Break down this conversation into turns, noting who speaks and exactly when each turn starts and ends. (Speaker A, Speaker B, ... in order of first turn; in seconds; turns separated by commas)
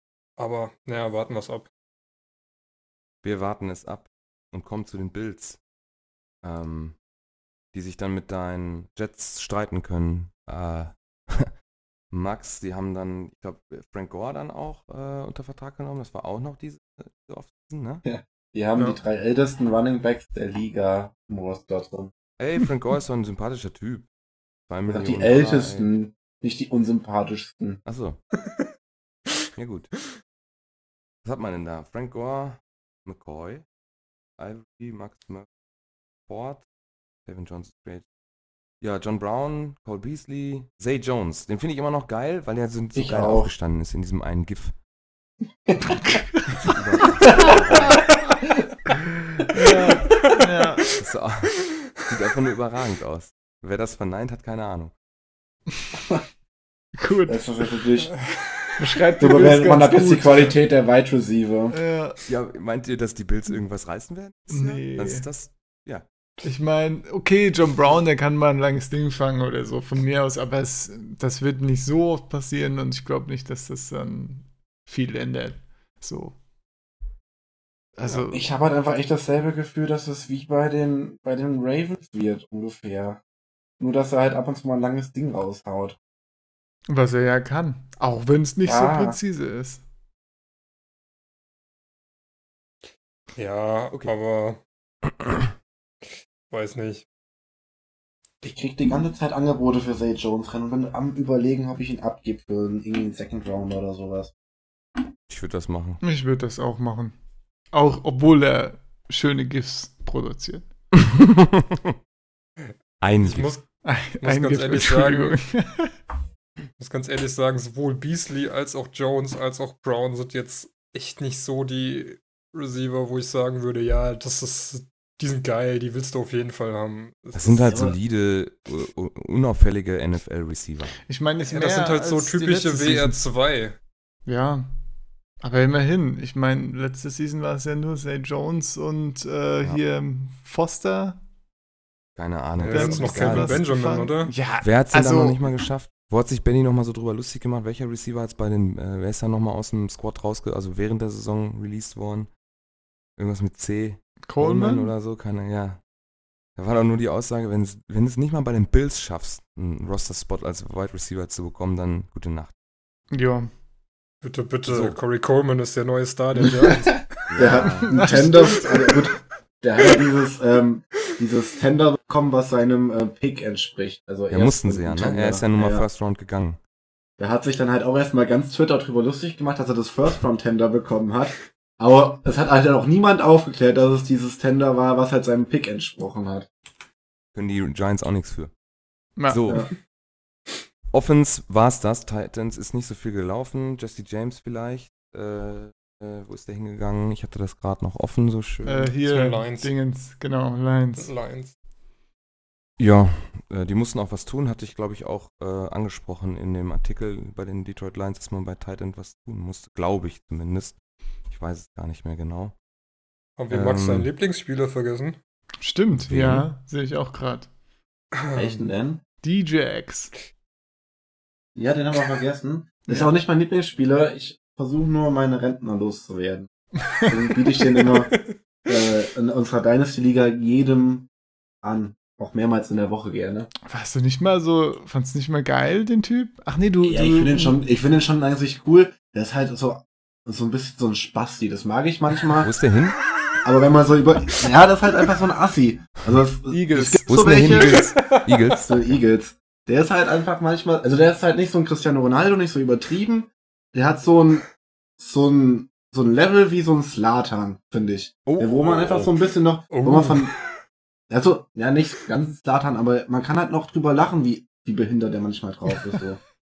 Speaker A: 0.4-1.7, Speaker B: 3.2-5.6, Speaker B: 6.4-7.0, Speaker B: 7.7-11.5, Speaker B: 12.1-18.0, Speaker C: 18.1-22.1, Speaker B: 22.4-24.1, Speaker B: 24.7-25.9, Speaker C: 24.9-27.8, Speaker B: 27.9-28.2, Speaker B: 29.6-29.9, Speaker B: 31.2-33.6, Speaker B: 34.4-35.5, Speaker B: 36.3-36.6, Speaker B: 37.3-38.0, Speaker B: 38.8-44.8, Speaker C: 43.0-43.5, Speaker B: 46.5-48.2, Speaker D: 49.5-50.9, Speaker A: 50.1-50.4, Speaker B: 51.0-54.9, Speaker D: 57.0-57.7, Speaker C: 57.3-58.1, Speaker D: 58.8-60.5, Speaker C: 59.2-61.8, Speaker D: 61.7-62.2, Speaker B: 62.3-66.0, Speaker D: 64.5-65.3, Speaker D: 66.4-76.4, Speaker D: 78.0-78.5, Speaker C: 78.3-83.2, Speaker C: 83.8-86.0, Speaker D: 86.9-89.8, Speaker C: 88.7-89.2, Speaker A: 93.4-94.6, Speaker A: 96.5-97.1, Speaker C: 98.4-104.3, Speaker B: 105.3-106.0, Speaker D: 106.0-107.2, Speaker D: 107.7-110.7, Speaker B: 111.1-112.0, Speaker A: 112.6-115.4, Speaker B: 113.0-113.5, Speaker D: 113.8-116.0, Speaker A: 116.8-127.8, Speaker B: 127.3-131.0, Speaker C: 127.7-128.0, Speaker D: 131.1-133.2, Speaker A: 131.5-133.8, Speaker D: 134.3-134.7, Speaker D: 135.4-141.2, Speaker B: 142.2-143.7, Speaker A: 142.6-144.3, Speaker D: 142.7-145.4, Speaker B: 144.6-152.3, Speaker B: 153.2-155.8, Speaker D: 154.2-154.9, Speaker B: 156.6-162.5, Speaker D: 163.1-163.5, Speaker A: 164.2-167.6, Speaker B: 164.7-165.0, Speaker B: 167.3-168.2, Speaker C: 167.4-175.9, Speaker D: 167.4-168.9, Speaker B: 174.3-176.6, Speaker C: 177.2-186.5, Speaker B: 187.3-188.5, Speaker D: 189.2-189.6, Speaker B: 189.3-189.7, Speaker B: 190.9-198.9, Speaker D: 198.7-201.1, Speaker A: 199.0-199.7, Speaker A: 201.0-201.6, Speaker B: 202.8-210.8, Speaker B: 211.3-212.6, Speaker A: 213.4-215.2, Speaker B: 213.5-214.1, Speaker D: 215.6-217.5, Speaker B: 216.1-216.5, Speaker A: 218.1-218.6, Speaker C: 218.3-219.0, Speaker D: 219.2-220.1, Speaker C: 221.6-231.1, Speaker C: 231.6-233.5, Speaker D: 233.7-237.6, Speaker C: 236.8-242.6, Speaker B: 242.4-243.0, Speaker C: 243.4-260.3, Speaker D: 246.5-247.6, Speaker B: 247.1-248.9, Speaker A: 247.6-248.5, Speaker B: 258.3-259.1, Speaker A: 259.7-260.5, Speaker C: 261.1-266.2